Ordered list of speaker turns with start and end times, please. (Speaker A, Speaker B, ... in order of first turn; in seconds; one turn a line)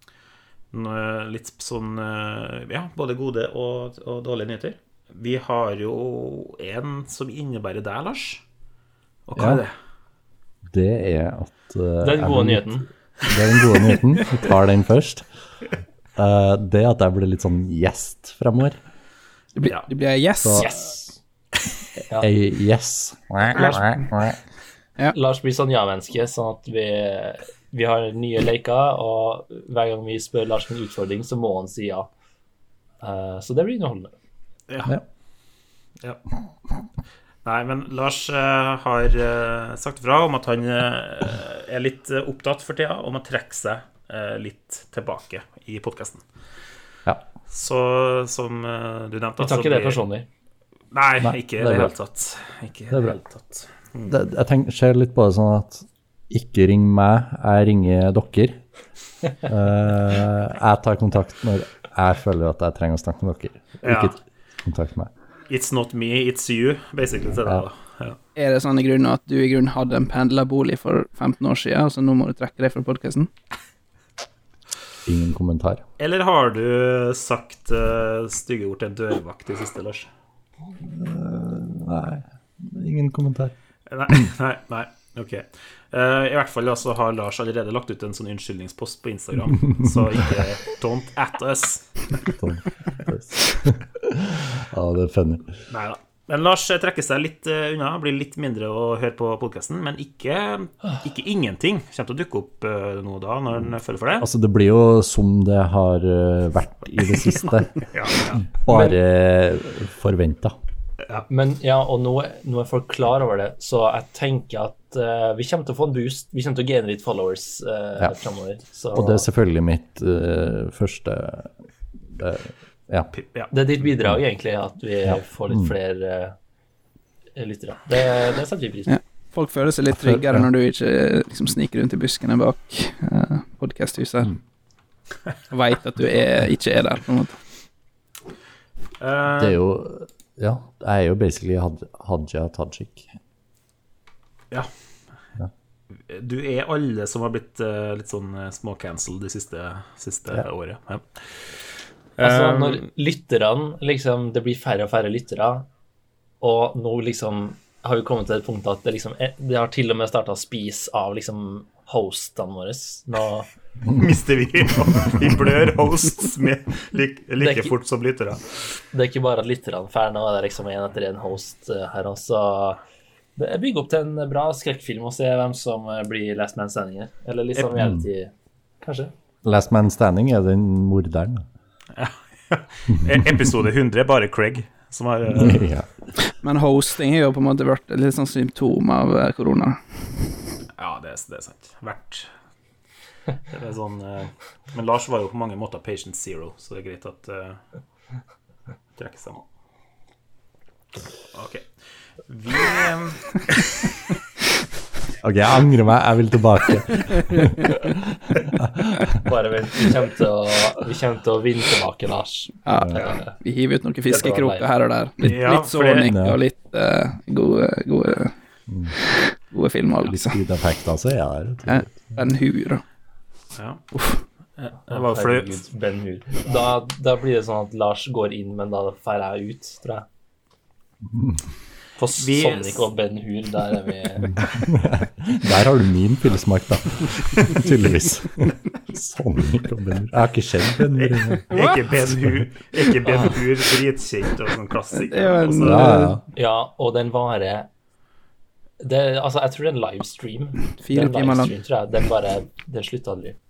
Speaker A: 0.7-8.4
Speaker A: 9.3-9.7
Speaker B: 9.3-9.6
Speaker B: 10.7-15.3
Speaker C: 12.0-12.9
Speaker B: 16.1-18.8
Speaker D: 19.6-20.8
Speaker B: 20.4-20.9
Speaker B: 22.1-24.4
Speaker C: 25.1-32.1
Speaker C: 33.0-34.1
Speaker A: 34.7-35.0
Speaker A: 37.4-46.2
Speaker A: 47.5-50.0
Speaker C: 49.4-50.3
Speaker A: 50.9-54.1
Speaker B: 51.2-51.9
Speaker B: 52.9-53.2
Speaker B: 54.1-58.6
Speaker B: 59.4-65.1
Speaker A: 63.8-64.2
Speaker A: 65.5-68.2
Speaker D: 68.3-73.3
Speaker B: 75.0-75.8
Speaker A: 76.0-80.1
Speaker B: 80.7-83.5
Speaker A: 83.9-91.9
Speaker B: 92.4-95.5
Speaker A: 95.7-104.3
Speaker B: 104.2-107.9
Speaker A: 107.9-108.5
Speaker B: 108.5-110.5
Speaker C: 108.7-109.0
Speaker C: 111.3-119.3
Speaker B: 118.9-121.5
Speaker B: 122.2-123.1
Speaker A: 123.1-123.5
Speaker C: 123.5-126.3
Speaker B: 123.8-124.2
Speaker C: 127.3-128.9
Speaker D: 128.9-134.4
Speaker B: 129.9-130.5
Speaker D: 135.5-137.4
Speaker A: 139.0-139.6
Speaker B: 139.4-143.1
Speaker A: 146.1-151.0
Speaker A: 152.2-152.8
Speaker C: 152.2-155.7
Speaker C: 156.4-163.5
Speaker A: 163.9-168.4
Speaker C: 167.4-167.7
Speaker C: 168.9-172.8
Speaker C: 173.3-179.1
Speaker B: 177.7-178.0
Speaker B: 179.4-181.4
Speaker A: 181.9-185.7
Speaker B: 185.3-185.9
Speaker D: 186.4-189.8
Speaker A: 190.8-192.3
Speaker A: 193.5-197.6
Speaker A: 199.0-199.4
Speaker A: 201.3-201.7
Speaker A: 202.3-203.9
Speaker B: 205.2-209.2
Speaker C: 209.2-213.3
Speaker D: 212.7-218.3
Speaker C: 214.1-214.7
Speaker A: 215.2-216.1
Speaker B: 216.0-216.4
Speaker B: 218.7-218.9
Speaker D: 219.0-220.4
Speaker B: 220.0-222.1
Speaker D: 221.7-222.8
Speaker A: 223.6-223.8
Speaker D: 223.9-224.2
Speaker A: 224.6-225.6
Speaker C: 224.9-230.1
Speaker B: 231.1-231.4
Speaker C: 232.0-234.3
Speaker A: 232.2-232.8
Speaker B: 234.3-241.5
Speaker A: 241.0-245.9
Speaker D: 244.9-246.2
Speaker B: 245.6-246.2
Speaker C: 246.3-247.7
Speaker C: 248.8-253.3
Speaker D: 250.8-251.5